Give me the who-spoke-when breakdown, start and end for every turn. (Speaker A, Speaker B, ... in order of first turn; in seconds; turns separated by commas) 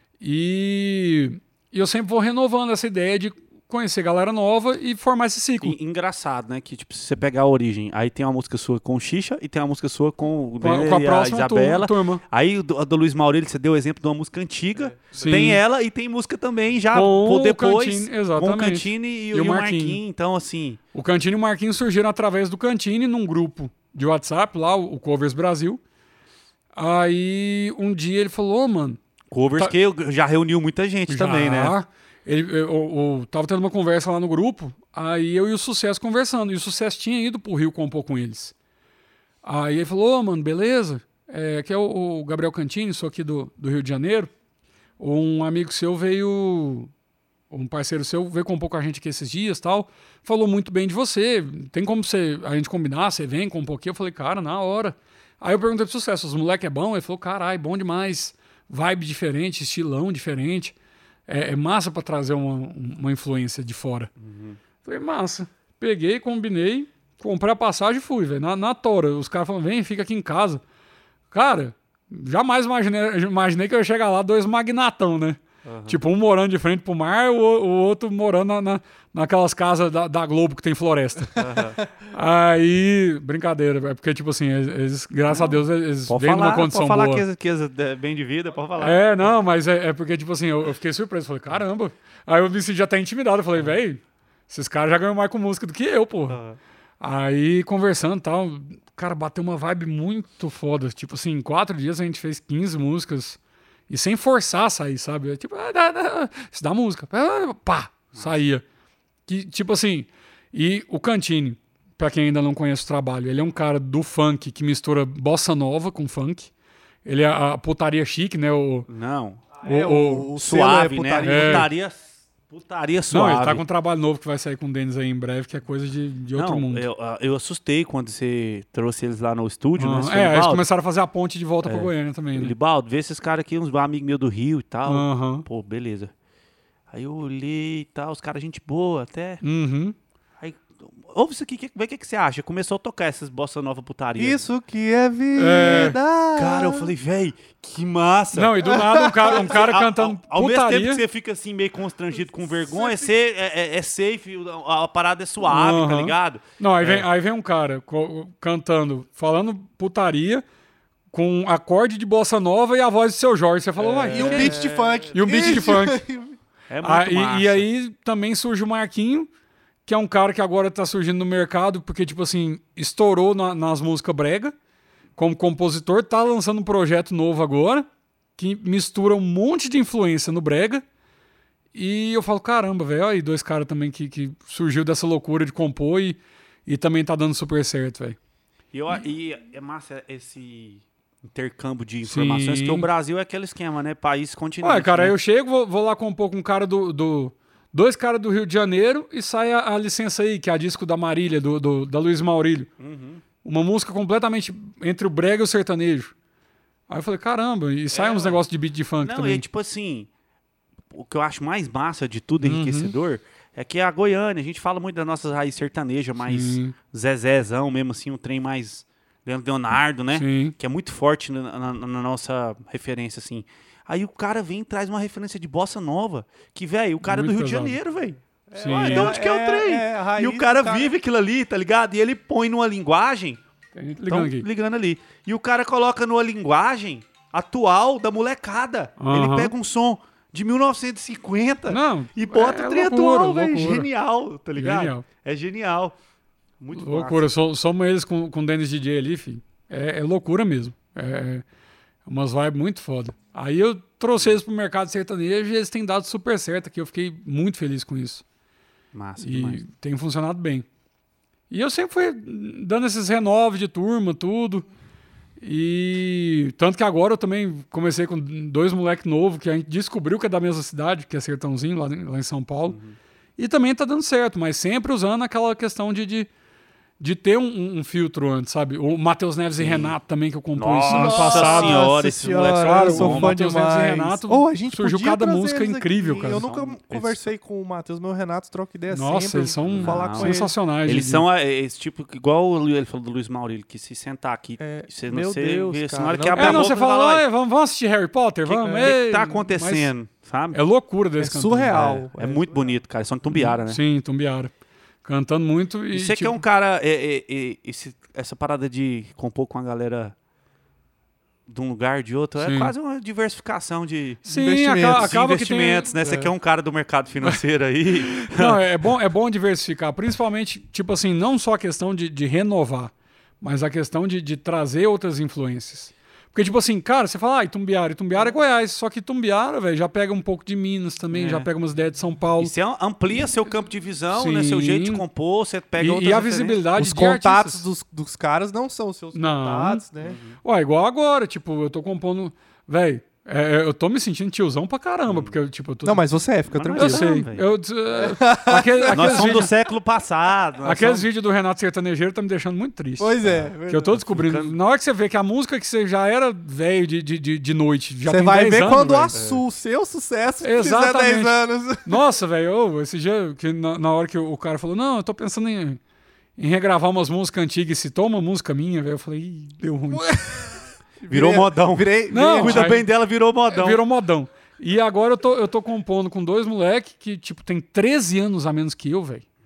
Speaker A: 0.2-5.8, Speaker B: 5.6-20.8, Speaker A: 10.6-12.2, Speaker A: 15.1-15.6, Speaker A: 16.9-20.0, Speaker A: 20.9-25.8, Speaker A: 26.8-29.0, Speaker B: 29.3-31.8, Speaker A: 31.1-38.5, Speaker A: 39.4-44.3, Speaker A: 45.0-46.9, Speaker A: 47.5-60.8, Speaker A: 61.3-64.1, Speaker B: 64.2-64.6, Speaker A: 64.8-70.6, Speaker A: 71.3-81.5, Speaker B: 75.7-76.0, Speaker B: 81.3-81.8, Speaker A: 82.0-87.2, Speaker B: 85.3-89.0, Speaker A: 88.8-96.4, Speaker B: 96.3-96.6, Speaker A: 97.0-108.6, Speaker B: 108.1-108.4, Speaker A: 109.3-116.5, Speaker A: 117.0-118.9, Speaker B: 118.9-119.6, Speaker A: 119.6-120.3, Speaker C: 119.6-121.7, Speaker B: 120.3-123.6, Speaker A: 121.2-121.7, Speaker A: 123.1-126.8, Speaker B: 126.3-130.7, Speaker A: 129.8-132.5, Speaker B: 131.6-136.1, Speaker A: 134.9-135.4, Speaker B: 136.9-139.4, Speaker A: 139.4-140.0, Speaker B: 140.4-144.4, Speaker C: 144.2-146.9, Speaker A: 145.4-146.0, Speaker B: 145.6-157.1, Speaker A: 148.3-151.0, Speaker C: 148.7-149.6, Speaker C: 152.7-153.1, Speaker A: 155.4-160.4, Speaker A: 161.1-164.6, Speaker B: 163.8-165.7, Speaker C: 164.1-166.4, Speaker A: 165.1-166.0, Speaker B: 166.7-167.7, Speaker A: 166.8-169.3, Speaker A: 169.9-174.6, Speaker A: 175.2-180.8, Speaker A: 181.7-188.2, Speaker B: 188.7-195.2, Speaker A: 192.1-192.9, Speaker A: 194.6-202.7, Speaker B: 202.8-203.2, Speaker A: 203.4-206.1, Speaker A: 206.9-209.4, Speaker B: 207.9-208.4, Speaker B: 209.0-210.1, Speaker B: 210.9-233.4, Speaker A: 212.4-212.9, Speaker A: 216.2-216.8, Speaker A: 220.1-220.6, Speaker A: 227.1-227.8, Speaker C: 228.5-230.9, Speaker A: 228.6-229.2, Speaker A: 233.8-234.5, Speaker B: 234.1-246.0, Speaker A: 239.0-239.5, Speaker A: 241.7-243.9, Speaker A: 244.6-245.1, Speaker B: 246.6-247.3, Speaker A: 246.7-251.4, Speaker A: 252.1-258.2, Speaker B: 258.9-259.6, Speaker A: 259.2-260.7, Speaker A: 261.5-264.6, Speaker A: 265.4-272.8, Speaker B: 272.7-273.0, Speaker A: 273.4-276.3, Speaker A: 277.0-281.9, Speaker B: 279.6-280.0, Speaker B: 280.6-283.4, Speaker C: 280.9-290.5, Speaker A: 282.6-286.4, Speaker B: 286.2-287.3, Speaker A: 288.9-291.2, Speaker B: 289.6-297.2, Speaker C: 294.6-296.7, Speaker A: 296.3-299.9, Speaker B: 298.5-300.6, Speaker C: 298.7-298.9, Speaker A: 300.5-301.8, Speaker C: 301.2-302.8, Speaker B: 301.7-303.8, Speaker A: 303.3-304.5, Speaker A: 305.0-306.4, Speaker B: 305.9-310.1, Speaker B: 311.5-318.6, Speaker A: 312.4-312.7, Speaker A: 314.3-315.9, Speaker C: 314.3-315.1, Speaker C: 316.0-316.3, Speaker A: 318.0-332.5, Speaker B: 331.1-331.5, Speaker B: 332.4-336.6, Speaker A: 334.1-335.0, Speaker A: 335.8-337.7, Speaker C: 336.8-340.2, Speaker A: 339.1-339.8, Speaker B: 340.0-340.4, Speaker A: 340.4-346.0, Speaker B: 345.1-345.4, Speaker C: 345.9-347.1, Speaker B: 346.5-347.5, Speaker A: 346.8-349.5, Speaker C: 347.9-349.5, Speaker B: 348.9-351.1, Speaker A: 350.6-359.1, Speaker C: 353.0-354.0, Speaker B: 353.2-353.5, Speaker B: 354.0-354.6, Speaker C: 358.1-362.0, Speaker B: 359.1-359.4, Speaker A: 360.4-365.8, Speaker A: 366.4-370.1, Speaker C: 369.9-372.7, Speaker B: 371.1-373.8, Speaker A: 372.1-372.9, Speaker A: 373.5-379.2